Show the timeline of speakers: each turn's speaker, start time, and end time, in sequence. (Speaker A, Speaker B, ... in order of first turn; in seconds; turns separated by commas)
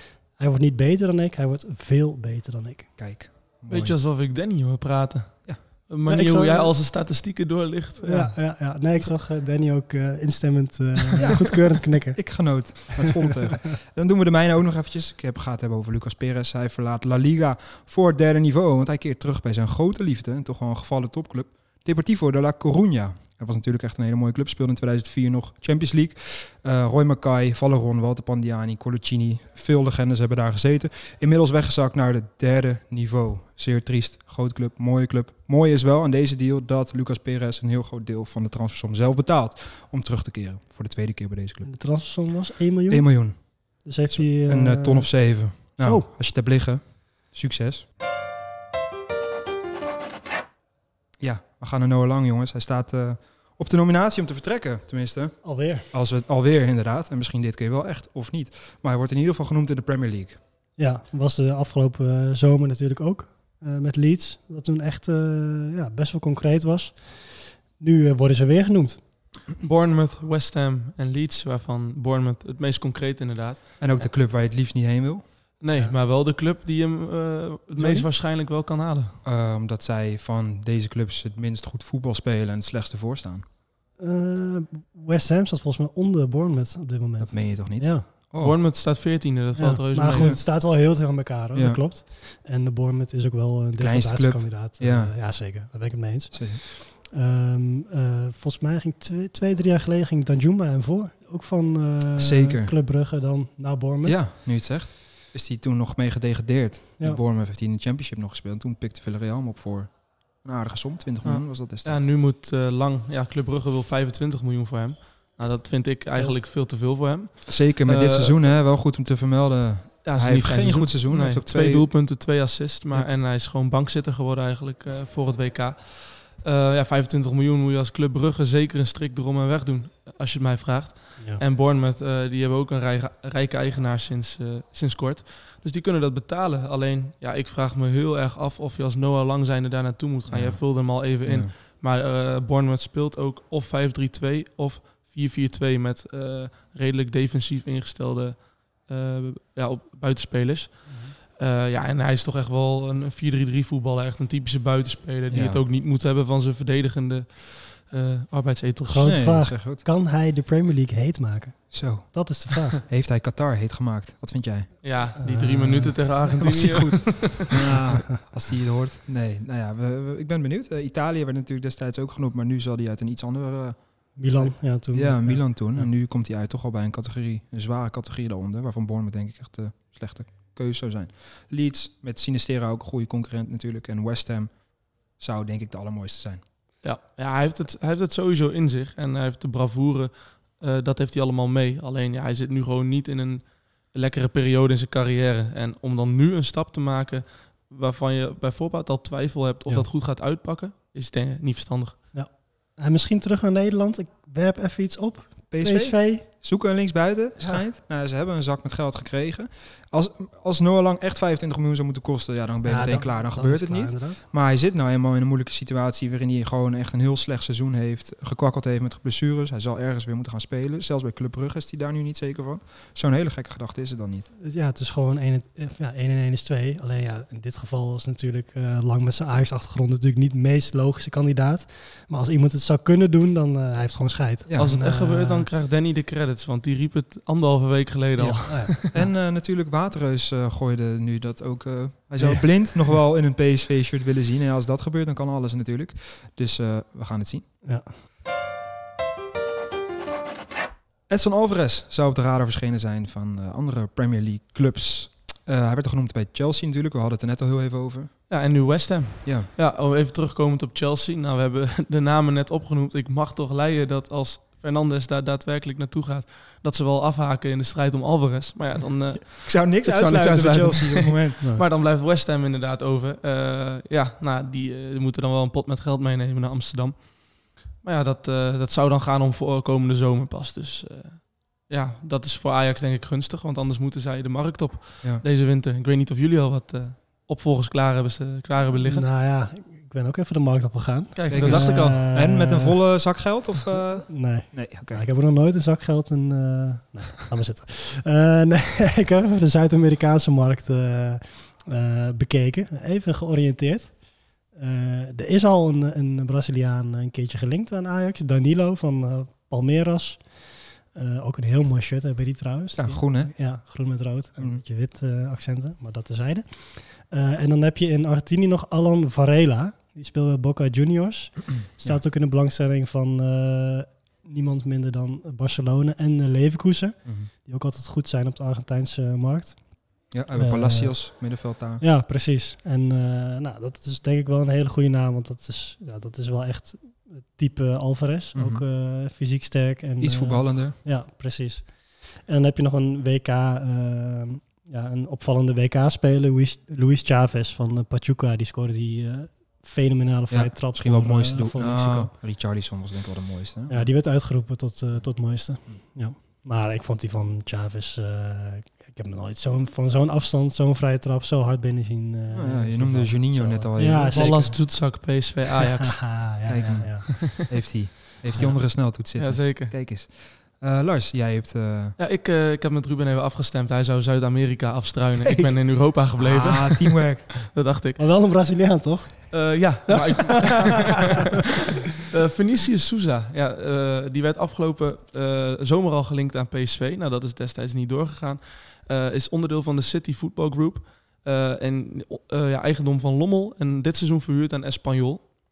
Speaker A: 0.4-2.9, Speaker B: 3.0-3.9, Speaker C: 3.7-5.3, Speaker C: 5.9-8.4, Speaker A: 6.1-6.7, Speaker A: 8.0-12.2, Speaker B: 11.2-11.6, Speaker B: 12.1-41.7, Speaker A: 41.6-43.0, Speaker B: 42.9-43.4, Speaker A: 43.8-45.1, Speaker B: 44.1-47.8, Speaker A: 45.8-46.1, Speaker B: 51.2-55.4, Speaker A: 55.4-55.9, Speaker B: 55.9-60.4, Speaker A: 60.8-69.0, Speaker C: 69.6-73.8, Speaker B: 73.8-75.2, Speaker C: 75.6-79.2, Speaker A: 77.7-78.1, Speaker B: 79.2-83.4, Speaker A: 84.0-88.1, Speaker B: 87.2-88.6, Speaker C: 88.4-90.3, Speaker A: 89.5-104.2, Speaker B: 90.1-90.4, Speaker B: 91.5-91.8, Speaker B: 93.8-95.1, Speaker B: 96.3-96.6, Speaker B: 102.2-102.7, Speaker B: 104.0-112.1, Speaker C: 111.2-118.5, Speaker B: 117.5-121.9, Speaker C: 120.0-159.3, Speaker B: 140.3-140.6, Speaker B: 141.2-141.5, Speaker A: 150.9-151.1, Speaker B: 155.3-155.6, Speaker A: 158.8-162.8, Speaker B: 159.0-159.8, Speaker B: 161.7-164.7, Speaker C: 164.8-167.6, Speaker A: 165.2-168.0, Speaker B: 167.5-173.8, Speaker A: 174.2-175.9, Speaker B: 174.3-184.5, Speaker B: 185.2-186.4, Speaker C: 186.8-202.0, Speaker A: 202.1-206.3, Speaker B: 205.5-224.3, Speaker A: 212.6-214.2, Speaker A: 224.4-235.5, Speaker B: 234.4-234.7, Speaker C: 234.6-238.8, Speaker B: 238.2-247.4, Speaker A: 238.5-239.1, Speaker A: 242.2-242.5, Speaker B: 251.1-258.1, Speaker C: 258.3-289.1, Speaker B: 259.2-259.5, Speaker B: 269.4-271.4, Speaker A: 288.8-292.8, Speaker C: 291.1-292.1, Speaker B: 291.3-295.0, Speaker A: 293.7-303.9, Speaker A: 304.5-310.2, Speaker A: 310.9-329.6, Speaker B: 312.8-313.4, Speaker B: 330.1-331.8, Speaker A: 330.3-331.1, Speaker A: 331.8-352.1, Speaker B: 338.3-338.6, Speaker B: 340.0-340.8, Speaker B: 350.3-353.9, Speaker A: 353.7-364.6, Speaker B: 362.3-364.3, Speaker C: 364.0-366.2, Speaker A: 365.8-367.1, Speaker B: 366.5-372.0, Speaker C: 369.2-369.7, Speaker C: 372.0-378.0, Speaker B: 375.2-375.6, Speaker B: 376.2-377.3, Speaker A: 378.0-381.1, Speaker C: 379.3-381.4, Speaker C: 381.9-395.2